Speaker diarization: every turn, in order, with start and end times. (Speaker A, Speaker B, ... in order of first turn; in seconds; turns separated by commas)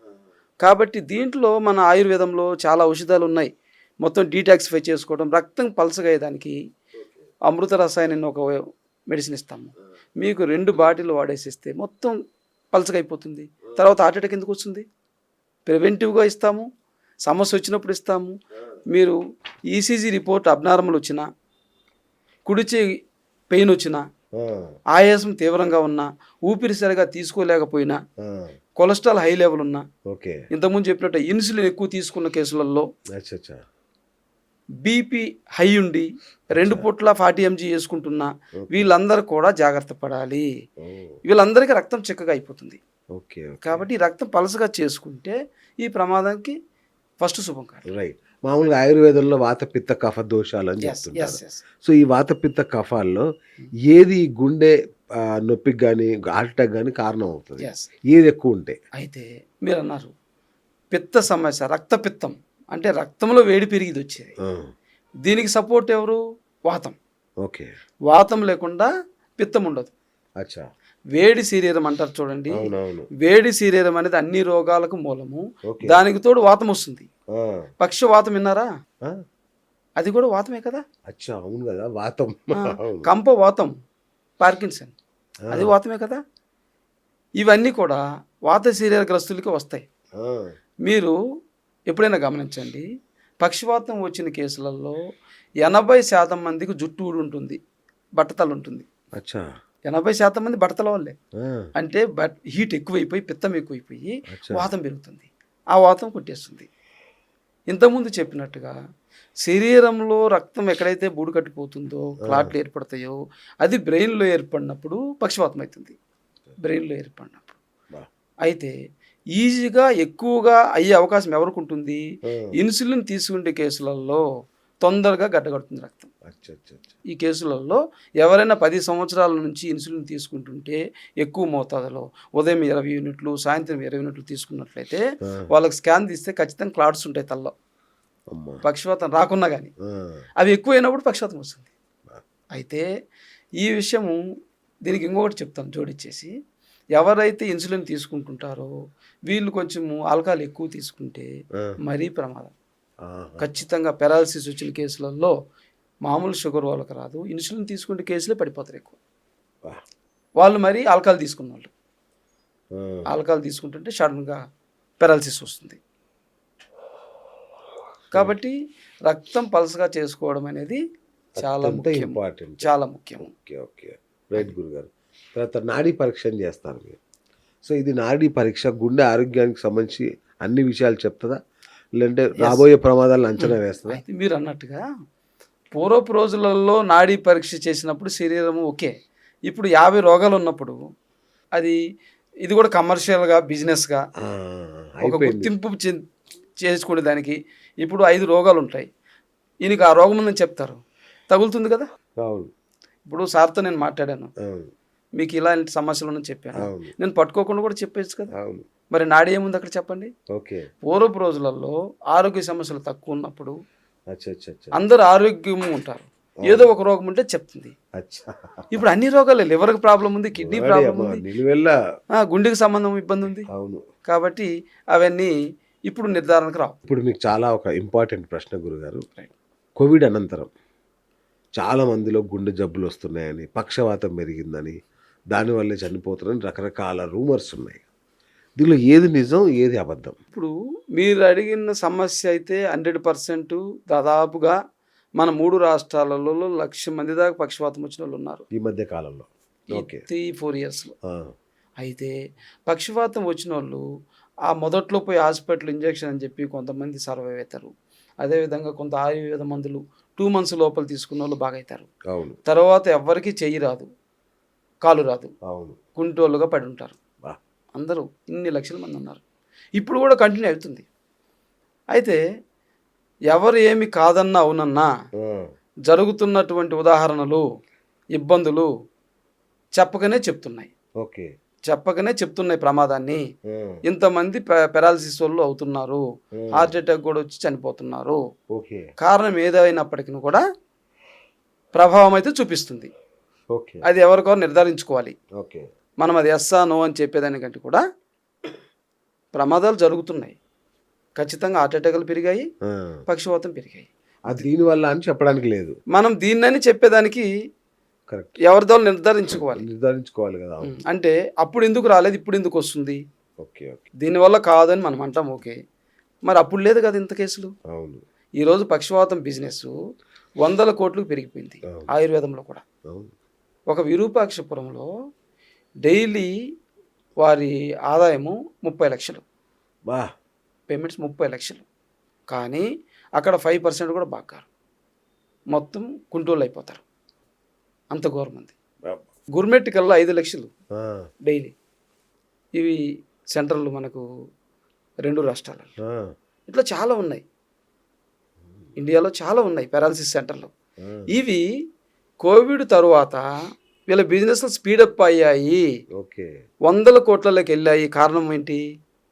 Speaker A: 0.6-3.5, Speaker A: 4.0-6.6, Speaker A: 7.5-12.1, Speaker A: 12.7-14.8, Speaker A: 15.7-16.7, Speaker A: 17.2-18.3, Speaker A: 18.9-19.2, Speaker A: 19.7-21.2, Speaker A: 22.4-22.9, Speaker A: 23.5-24.0, Speaker B: 24.4-24.8, Speaker A: 24.9-28.0, Speaker B: 28.2-28.5, Speaker A: 28.8-29.8, Speaker B: 30.1-30.4, Speaker A: 30.5-32.9, Speaker B: 33.1-33.6, Speaker A: 34.8-40.5, Speaker B: 36.5-36.8, Speaker B: 38.6-38.9, Speaker B: 40.8-41.2, Speaker A: 41.2-42.8, Speaker B: 43.1-43.8, Speaker A: 43.6-46.5, Speaker A: 47.2-47.9, Speaker B: 47.9-53.2, Speaker A: 50.8-51.6, Speaker B: 53.9-58.8, Speaker A: 57.6-57.9, Speaker A: 59.0-60.1, Speaker A: 60.9-64.3, Speaker B: 64.4-64.7, Speaker A: 65.2-67.0, Speaker B: 67.4-67.7, Speaker A: 68.1-69.9, Speaker A: 71.1-77.1, Speaker B: 72.5-73.1, Speaker B: 75.7-76.0, Speaker B: 77.3-77.7, Speaker A: 77.8-78.7, Speaker A: 80.0-80.8, Speaker B: 81.1-83.1, Speaker A: 82.6-83.7, Speaker A: 84.4-84.9, Speaker A: 85.5-86.2, Speaker A: 87.4-89.8, Speaker B: 90.2-90.5, Speaker A: 90.8-91.1, Speaker A: 91.9-92.9, Speaker A: 93.4-95.0, Speaker A: 95.6-97.6, Speaker A: 98.2-98.9, Speaker B: 99.2-99.4, Speaker A: 99.9-101.2, Speaker B: 101.4-101.7, Speaker A: 101.8-106.7, Speaker B: 104.3-104.7, Speaker A: 107.7-108.7, Speaker A: 109.4-116.0, Speaker A: 116.6-117.6, Speaker A: 118.4-118.7, Speaker A: 119.3-122.0, Speaker A: 122.5-124.2, Speaker A: 124.8-126.1, Speaker B: 126.3-127.0, Speaker A: 127.1-137.5, Speaker B: 138.3-138.6, Speaker A: 138.6-139.7, Speaker A: 140.4-141.7, Speaker A: 142.5-142.8, Speaker A: 143.6-144.2, Speaker A: 144.8-146.3, Speaker A: 147.0-148.7, Speaker A: 149.3-151.3, Speaker A: 151.8-152.5, Speaker B: 153.0-153.5, Speaker A: 153.4-155.3, Speaker A: 156.0-159.0, Speaker A: 160.4-161.7, Speaker B: 162.8-163.0, Speaker A: 163.1-164.4, Speaker A: 165.0-165.8, Speaker A: 168.1-168.6, Speaker A: 169.1-170.8, Speaker A: 171.4-173.3, Speaker B: 171.4-177.0, Speaker B: 177.6-181.4, Speaker B: 182.0-184.0, Speaker A: 182.4-182.6, Speaker A: 183.4-184.8, Speaker A: 185.7-188.9, Speaker A: 189.5-190.8, Speaker A: 192.4-194.0, Speaker B: 194.2-195.5, Speaker A: 195.0-196.0, Speaker A: 196.6-198.9, Speaker A: 199.6-201.9, Speaker B: 202.2-202.5, Speaker A: 203.1-204.3, Speaker B: 204.4-204.7, Speaker A: 205.2-208.3, Speaker B: 206.6-206.9, Speaker B: 208.3-208.6, Speaker A: 208.9-210.1, Speaker B: 210.3-210.7, Speaker A: 210.8-213.5, Speaker B: 214.1-214.8, Speaker A: 214.7-217.7, Speaker B: 218.0-218.7, Speaker A: 218.7-221.2, Speaker B: 220.4-221.7, Speaker A: 222.2-223.5, Speaker B: 223.5-223.8, Speaker A: 224.1-225.3, Speaker A: 225.9-226.8, Speaker B: 226.8-229.0, Speaker B: 229.8-230.5, Speaker B: 231.6-234.8, Speaker B: 235.3-237.8, Speaker B: 238.6-240.2, Speaker A: 240.3-244.6, Speaker A: 245.2-248.4, Speaker B: 248.5-250.0, Speaker A: 249.7-250.9, Speaker B: 251.1-251.3, Speaker A: 251.8-252.1, Speaker A: 252.7-253.8, Speaker A: 254.5-257.7, Speaker A: 258.2-261.9, Speaker B: 262.1-262.4, Speaker A: 262.4-263.9, Speaker A: 264.8-265.3, Speaker B: 265.5-265.8, Speaker A: 266.0-267.0, Speaker A: 267.7-269.2, Speaker A: 269.8-270.8, Speaker A: 271.9-272.2, Speaker A: 273.3-274.9, Speaker B: 275.2-275.4, Speaker A: 275.9-277.4, Speaker A: 278.1-278.7, Speaker A: 279.8-280.7, Speaker B: 281.0-281.3, Speaker A: 281.7-283.2, Speaker B: 283.5-283.8, Speaker A: 283.8-286.0, Speaker B: 286.4-286.7, Speaker A: 286.5-288.2, Speaker B: 288.5-288.9, Speaker A: 289.0-290.4, Speaker A: 291.7-292.9, Speaker B: 293.5-293.8, Speaker A: 293.8-295.1, Speaker B: 295.4-295.7, Speaker A: 296.0-297.8, Speaker A: 299.3-300.4, Speaker A: 301.2-302.4, Speaker B: 302.7-303.0, Speaker A: 303.1-304.5, Speaker B: 304.3-305.7, Speaker A: 305.9-307.3, Speaker A: 308.4-309.6, Speaker B: 309.3-310.7, Speaker A: 310.6-313.0, Speaker B: 313.4-313.9, Speaker A: 314.0-315.6, Speaker A: 316.3-317.5, Speaker B: 317.7-318.0, Speaker A: 318.4-319.7, Speaker A: 320.4-322.6, Speaker A: 323.7-324.9, Speaker A: 325.8-326.3, Speaker A: 327.2-329.2, Speaker A: 330.7-331.6, Speaker A: 332.3-332.6, Speaker A: 333.2-334.4, Speaker A: 335.5-336.8, Speaker A: 337.9-338.5, Speaker A: 339.3-340.5, Speaker B: 340.8-341.0, Speaker A: 341.2-341.5, Speaker A: 343.3-344.0, Speaker A: 345.0-345.7, Speaker B: 345.9-346.1, Speaker A: 346.5-347.2, Speaker B: 348.4-348.7, Speaker A: 348.8-350.5, Speaker B: 350.8-351.1, Speaker A: 351.1-351.4, Speaker A: 352.2-353.2, Speaker A: 353.9-355.6, Speaker B: 356.0-356.3, Speaker A: 356.7-358.6